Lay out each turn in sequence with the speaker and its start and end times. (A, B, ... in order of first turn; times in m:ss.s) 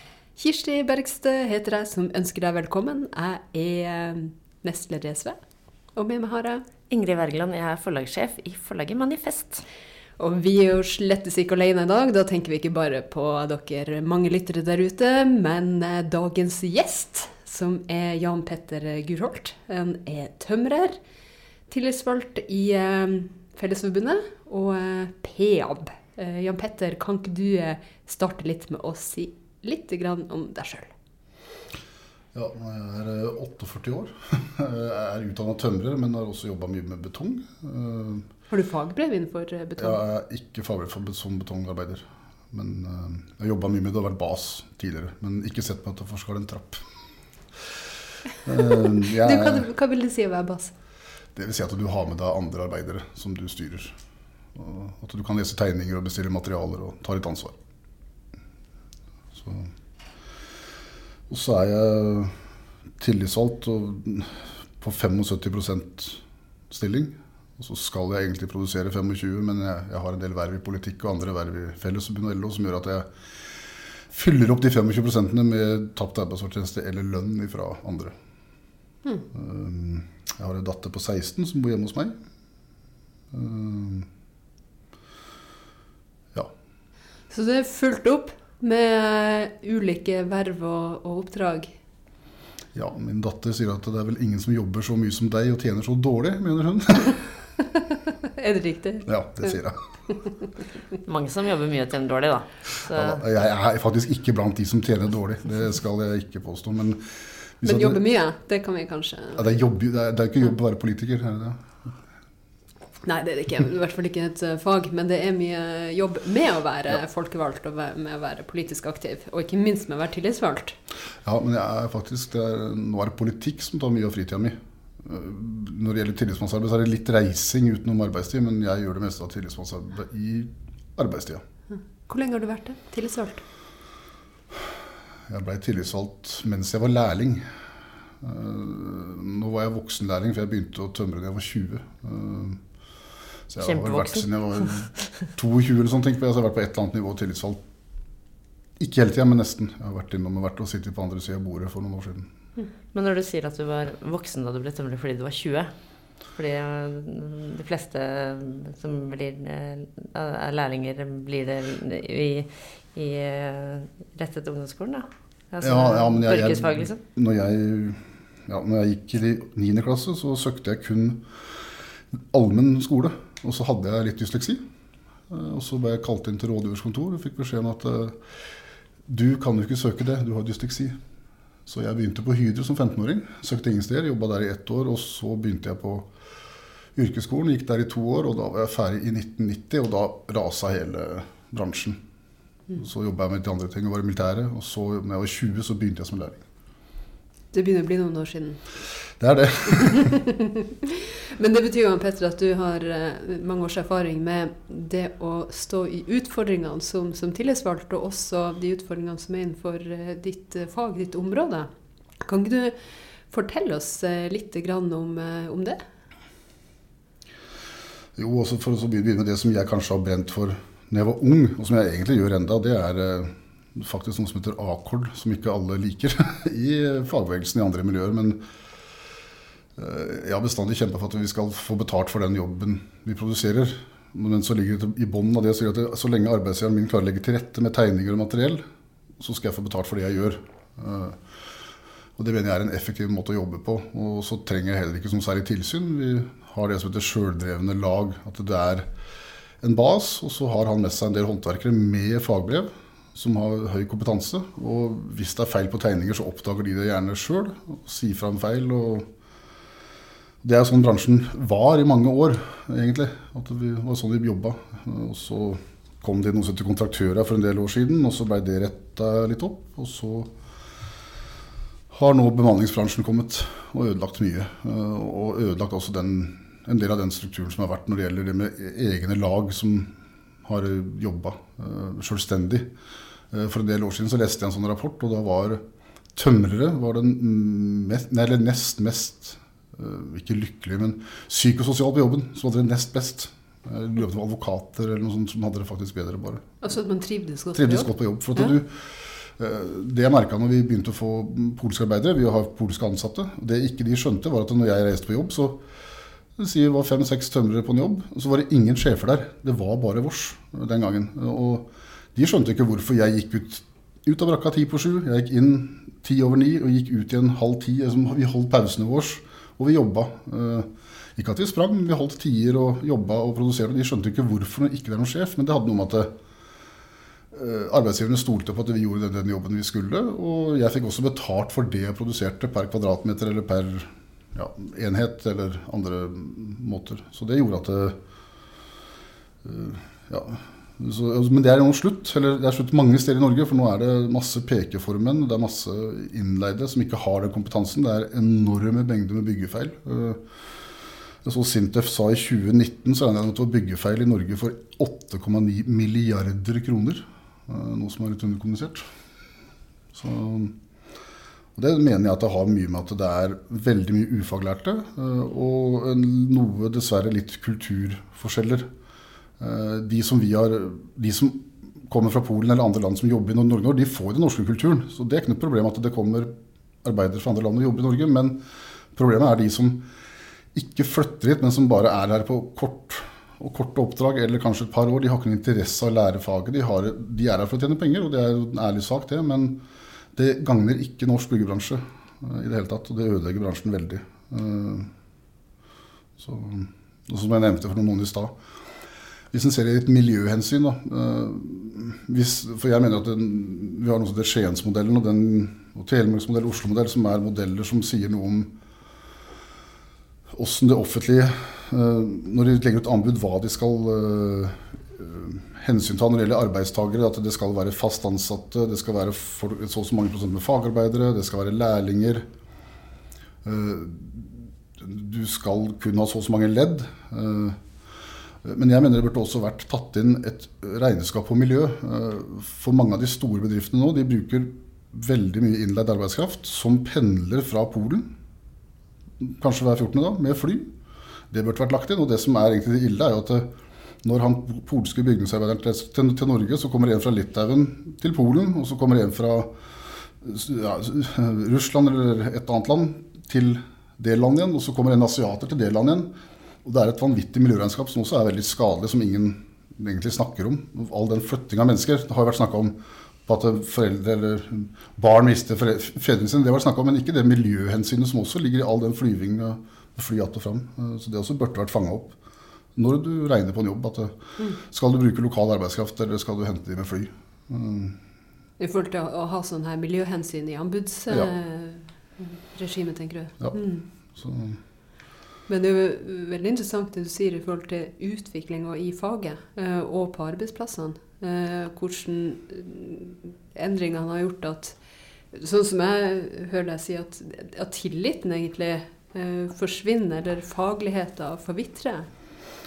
0:00.4-0:05.4 A
0:06.0-0:06.6 A
0:06.9-0:09.6 B
0:10.2-0:21.0 A
0:21.7-0:30.9 A
0:32.3-0:38.2 C
0:38.5-0:40.0 A
0:39.8-0:46.8 C
0:48.4-0:49.6 C
0:48.8-0:50.7 A
0:51.4-0:53.9 C
0:54.5-0:57.6 C
0:59.4-0:59.7 C
1:01.3-1:02.3 C
1:03.0-1:13.1 C
1:14.1-1:18.1 C
1:19.3-1:22.2 C
1:23.3-1:24.1 C
1:27.3-1:31.7 A
1:32.7-1:37.2 C
1:38.2-1:39.1 A
1:39.0-1:39.8 C
1:41.0-1:43.2 B
1:42.9-1:47.0 C
1:47.6-1:48.0 C
1:47.6-1:49.4 A
1:49.4-1:51.6 C
1:53.0-2:00.8 A
2:01.2-2:11.4 C
2:12.0-2:13.4 A
2:15.3-2:17.4 C
2:18.2-2:22.6 C
2:23.5-2:27.6 C
2:23.6-2:24.7 B
2:28.8-2:32.3 C
2:32.9-2:35.7 B
2:36.3-2:47.0 B
2:45.6-2:51.2 C
2:52.3-2:54.6 C
2:55.3-2:58.2 C
2:59.1-3:01.0 C
3:01.6-3:06.1 C
3:06.9-3:12.0 C
3:12.8-3:16.4 C
3:17.5-3:18.6 A
3:19.2-3:20.1 C
3:19.7-3:31.7 A
3:32.2-3:32.8 A
3:33.3-3:35.8 A
3:38.2-3:48.4 C
3:49.8-3:58.6 C
3:59.2-4:01.2 C
4:02.2-4:08.9 C
4:09.6-4:19.0 C
4:20.4-4:30.3 C
4:31.9-4:39.9 C
4:40.4-4:42.7 C
4:43.3-4:45.6 C
4:46.2-4:56.4 C
4:56.6-4:58.5 A
4:57.5-4:58.7 C
4:59.4-5:05.6 C
5:06.4-5:26.1 C
5:27.3-5:38.0 C
5:39.4-5:50.2 C
5:51.2-5:58.9 C
5:59.9-6:00.5 C
6:01.6-6:08.7 C
6:09.4-6:16.3 C
6:16.8-6:18.4 C
6:18.9-6:19.8 C
6:20.5-6:29.6 C
6:30.1-6:34.9 C
6:36.2-6:38.3 C
6:39.3-6:48.5 C
6:50.3-7:02.2 C
7:03.4-7:07.6 C
7:08.4-7:18.1 C
7:19.2-7:20.7 C
7:21.3-7:23.5 C
7:24.0-7:29.5 C
7:30.2-7:36.1 C
7:36.6-7:52.1 C
7:52.8-7:58.0 C
7:58.6-8:03.8 A
8:04.1-8:04.6 C
8:05.5-8:14.8 A
8:15.3-8:22.1 A